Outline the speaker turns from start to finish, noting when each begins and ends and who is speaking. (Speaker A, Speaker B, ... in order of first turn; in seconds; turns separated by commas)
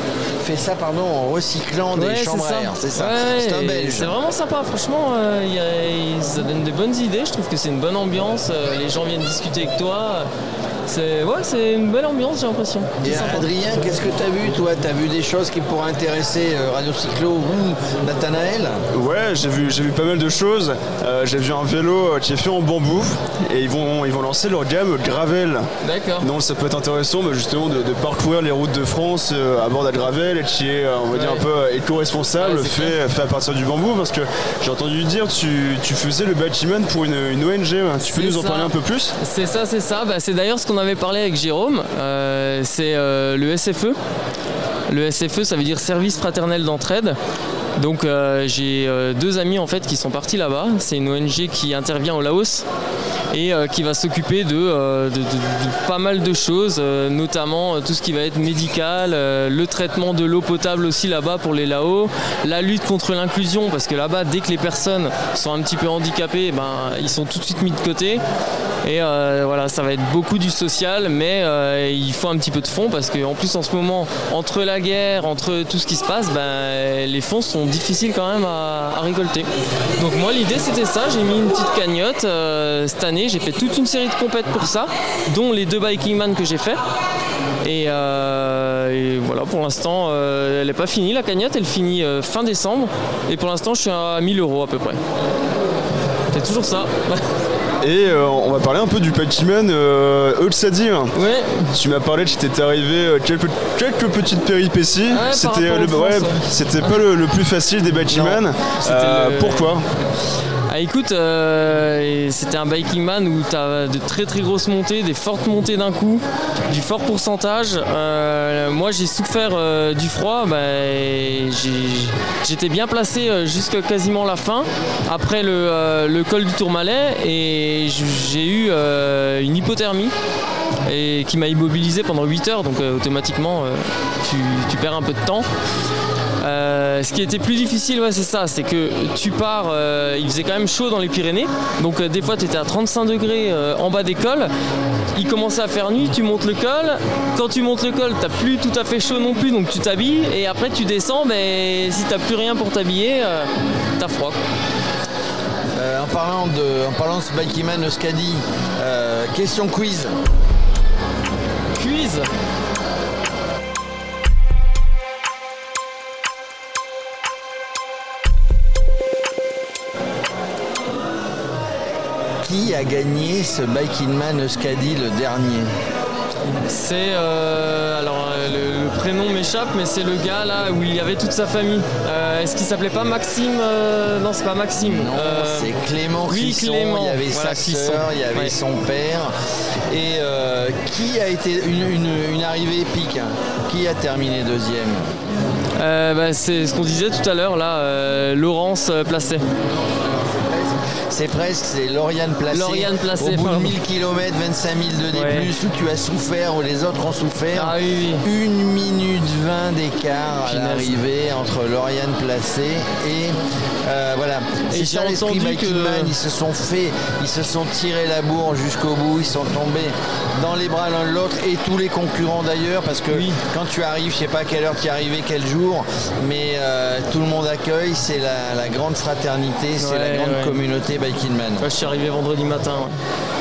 Speaker A: 0.4-4.2, Speaker B: 1.9-10.3, Speaker B: 10.9-13.5, Speaker A: 13.0-18.8, Speaker C: 18.9-25.7, Speaker B: 25.8-26.3, Speaker C: 26.2-39.1, Speaker B: 31.1-31.4, Speaker B: 32.4-33.0, Speaker B: 38.0-44.0, Speaker B: 44.9-47.2, Speaker B: 47.8-52.6, Speaker B: 53.3-68.2, Speaker B: 68.8-86.8, Speaker B: 87.6-95.0, Speaker B: 96.3-97.3, Speaker C: 97.8-101.1, Speaker B: 101.1-101.7, Speaker C: 101.7-109.8, Speaker B: 105.1-107.0, Speaker B: 108.1-109.8, Speaker B: 110.7-130.1, Speaker B: 130.8-135.5, Speaker B: 136.4-144.5, Speaker B: 145.1-154.4, Speaker A: 155.8-160.2, Speaker B: 161.7-162.3, Speaker A: 172.4-175.7, Speaker B: 176.5-185.7, Speaker A: 184.8-189.3, Speaker B: 186.3-188.5, Speaker A: 189.9-195.0, Speaker B: 195.8-199.4, Speaker A: 200.0-231.7, Speaker B: 202.5-203.8, Speaker B: 205.1-205.5, Speaker B: 207.5-208.2, Speaker B: 210.4-211.0, Speaker B: 214.7-216.1, Speaker B: 223.1-223.4, Speaker B: 229.8-230.6, Speaker B: 231.6-232.9